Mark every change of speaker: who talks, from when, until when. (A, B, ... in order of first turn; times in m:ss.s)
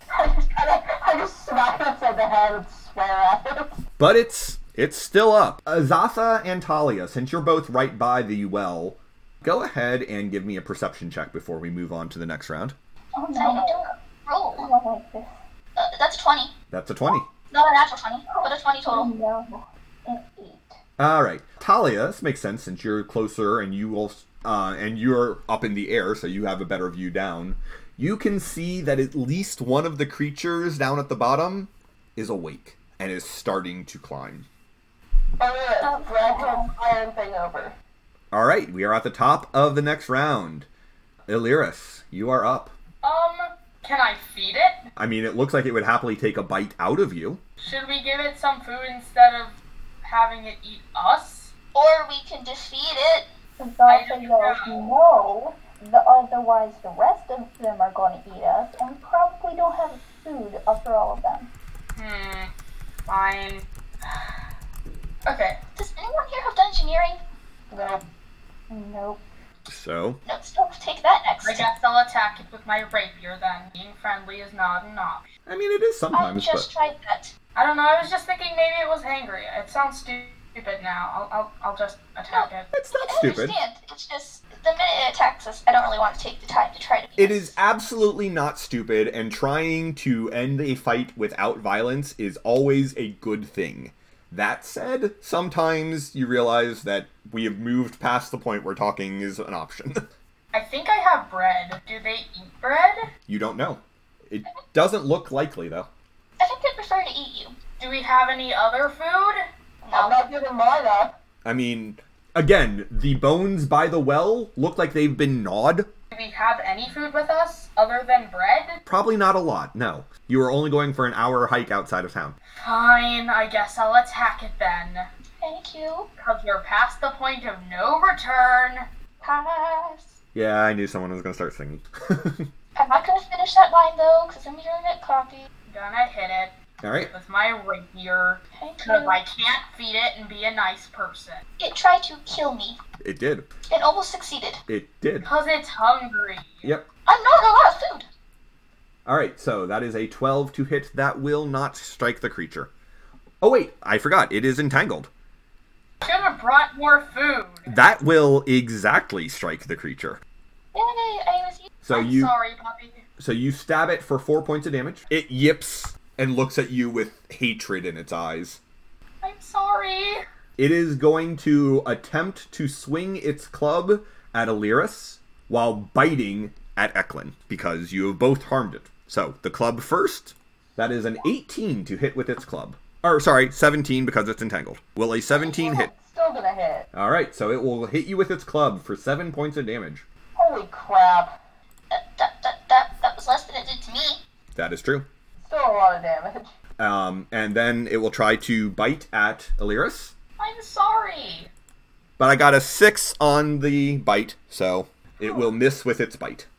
0:00.1-0:03.8 A
0:04.0-0:12.7 B
0:13.2-0:13.8 C
0:13.4-0:14.7 D
0:14.6-0:15.4 C
0:15.8-0:16.5 D
0:16.7-0:17.3 B
0:17.5-0:19.1 D
0:18.3-0:20.8 C
0:21.0-0:34.5 B
0:35.4-0:37.7 A
0:35.8-0:36.7 C
0:38.3-0:40.7 B
0:41.3-0:42.7 B
0:43.0-0:44.9 E
0:45.0-0:47.4 B
0:47.6-0:51.5 E
0:51.7-0:53.3 D
0:53.6-1:01.5 C
0:53.9-0:54.9 E
1:01.9-1:02.5 E
1:03.1-1:04.2 E
1:05.2-1:05.6 E
1:05.8-1:07.2 D
1:07.7-1:08.0 A
1:08.7-1:09.2 C
1:09.7-1:10.2 B
1:10.2-1:11.7 D
1:11.4-1:15.3 E
1:15.5-1:16.7 B
1:16.1-1:17.3 D
1:17.5-1:22.7 E
1:22.3-1:27.5 D
1:22.7-1:23.6 B
1:27.2-1:40.1 B
1:40.5-1:43.0 E
1:43.3-1:45.9 B
1:46.4-1:47.6 D
1:47.8-1:49.4 E
1:49.8-1:50.2 D
1:49.9-1:51.1 A
1:51.4-1:55.9 B
1:56.1-1:58.8 E
1:58.8-2:02.4 B
2:02.6-2:05.1 E
2:05.4-2:06.1 D
2:06.2-2:08.9 E
2:09.2-2:10.2 D
2:10.3-2:12.5 B
2:12.7-2:15.5 D
2:15.7-2:16.5 E
2:16.8-2:17.1 B
2:17.0-2:21.4 E
2:18.5-2:19.2 D
2:21.6-2:22.8 D
2:23.0-2:23.5 B
2:23.7-2:24.6 D
2:24.7-2:25.3 B
2:25.2-2:26.7 E
2:27.0-2:28.1 D
2:29.0-2:32.7 B
2:33.4-2:35.1 B
2:36.0-2:37.8 E
2:37.7-2:40.2 B
2:40.7-2:41.7 D
2:41.8-2:42.3 B
2:41.9-2:43.0 E
2:43.2-2:48.6 B
2:49.2-2:50.2 E
2:50.6-3:05.9 B
3:05.3-3:06.9 A
3:06.9-3:10.0 B
3:10.4-3:11.3 A
3:11.9-3:14.2 D
3:14.5-3:15.1 B
3:15.4-3:16.5 A
3:16.8-3:20.1 B
3:20.4-3:21.5 E
3:22.2-3:26.5 B